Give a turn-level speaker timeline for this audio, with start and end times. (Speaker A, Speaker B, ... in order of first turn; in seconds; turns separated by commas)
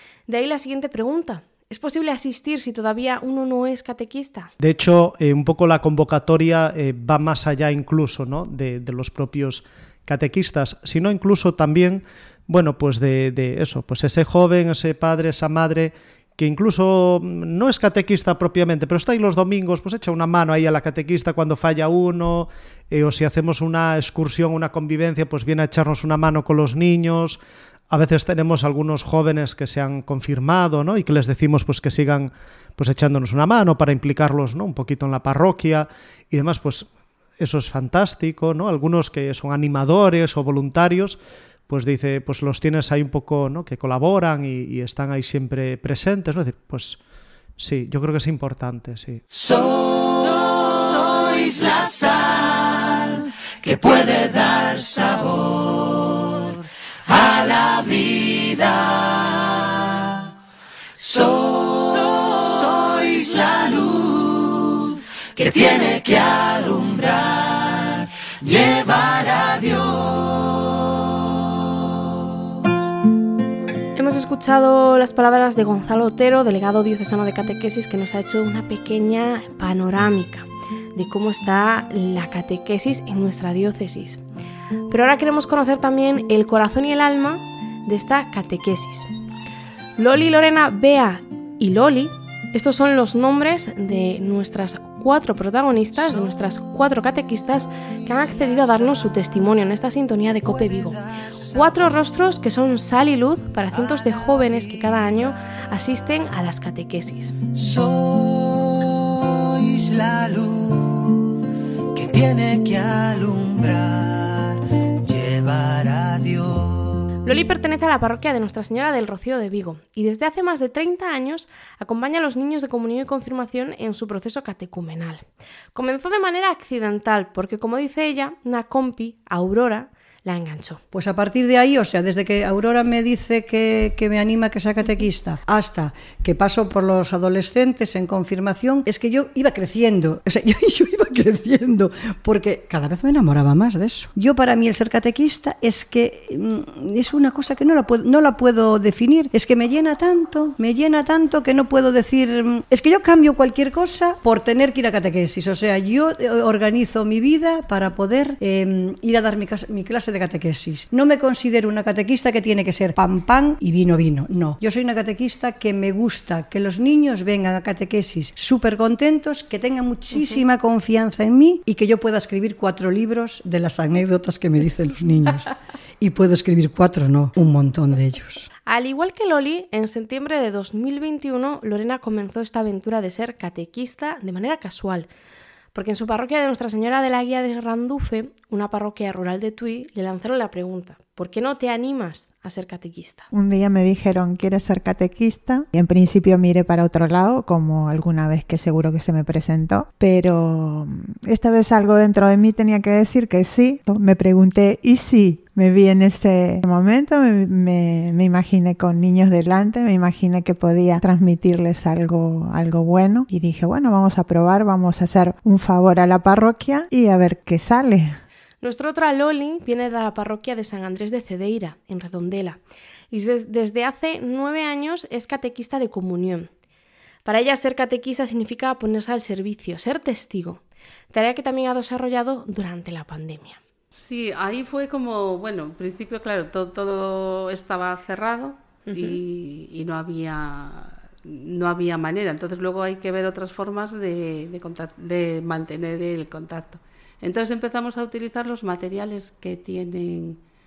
Speaker A: 0.3-4.5, Speaker B: 4.6-47.0, Speaker B: 47.6-49.2, Speaker C: 49.5-50.2, Speaker C: 51.0-52.4, Speaker C: 53.6-55.5, Speaker C: 57.1-58.7, Speaker C: 61.0-64.5, Speaker C: 65.4-67.5, Speaker C: 68.4-70.0, Speaker A: 74.0-84.2, Speaker A: 84.9-89.1, Speaker A: 90.0-107.3, Speaker C: 107.8-110.5, Speaker C: 113.2-113.7, Speaker A: 117.2-125.2, Speaker A: 125.7-130.8, Speaker D: 130.9-175.5, Speaker D: 176.0-178.5, Speaker A: 178.7-185.1, Speaker A: 185.7-193.3, Speaker E: 193.3-218.2, Speaker A: 218.6-226.5, Speaker A: 227.2-230.6, Speaker A: 231.1-233.6, Speaker F: 233.9-250.4, Speaker A: 238.9-239.2